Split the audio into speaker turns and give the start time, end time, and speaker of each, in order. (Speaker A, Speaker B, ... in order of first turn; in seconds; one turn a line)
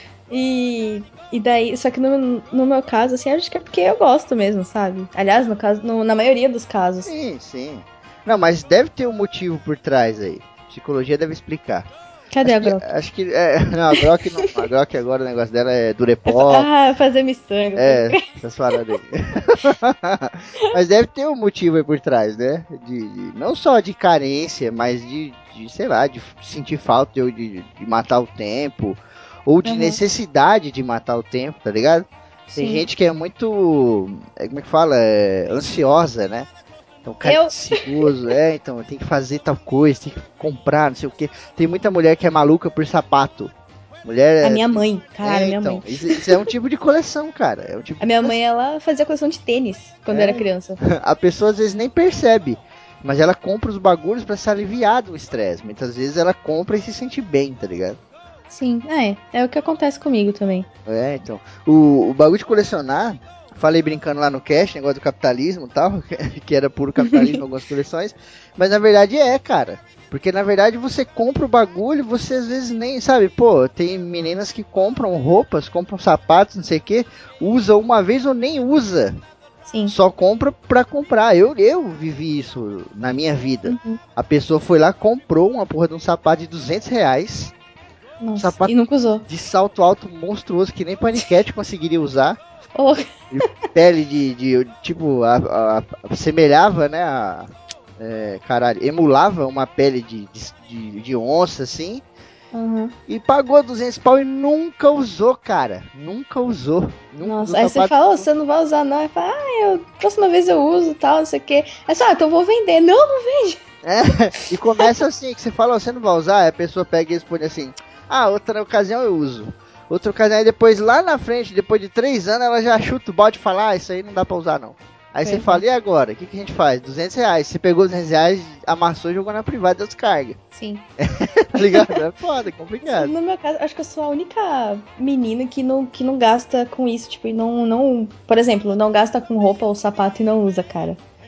Speaker A: 0.3-7.1
Speaker B: 7.0-11.9
Speaker A: 12.3-12.9
Speaker B: 12.4-16.7
Speaker A: 16.3-18.3
Speaker B: 17.8-36.5
Speaker A: 29.6-30.0
Speaker A: 32.5-32.9
Speaker B: 37.0-43.5
Speaker A: 37.2-37.9
Speaker B: 44.0-48.4
Speaker A: 44.4-46.3
Speaker A: 48.0-50.8
Speaker B: 50.1-58.0
Speaker A: 58.5-60.7
Speaker B: 60.9-79.1
Speaker A: 67.0-67.4
Speaker A: 79.7-80.0
Speaker B: 79.9-87.5
Speaker A: 83.7-84.0
Speaker A: 88.2-89.3
Speaker B: 88.4-88.7
Speaker B: 89.3-92.4
Speaker A: 92.8-93.1
Speaker B: 93.3-102.0
Speaker A: 102.5-103.0
Speaker B: 103.1-108.3
Speaker A: 107.2-113.6
Speaker B: 113.8-130.4
Speaker A: 114.3-114.9
Speaker A: 125.2-125.6
Speaker A: 130.5-130.8
Speaker B: 131.0-133.1
Speaker A: 132.8-141.0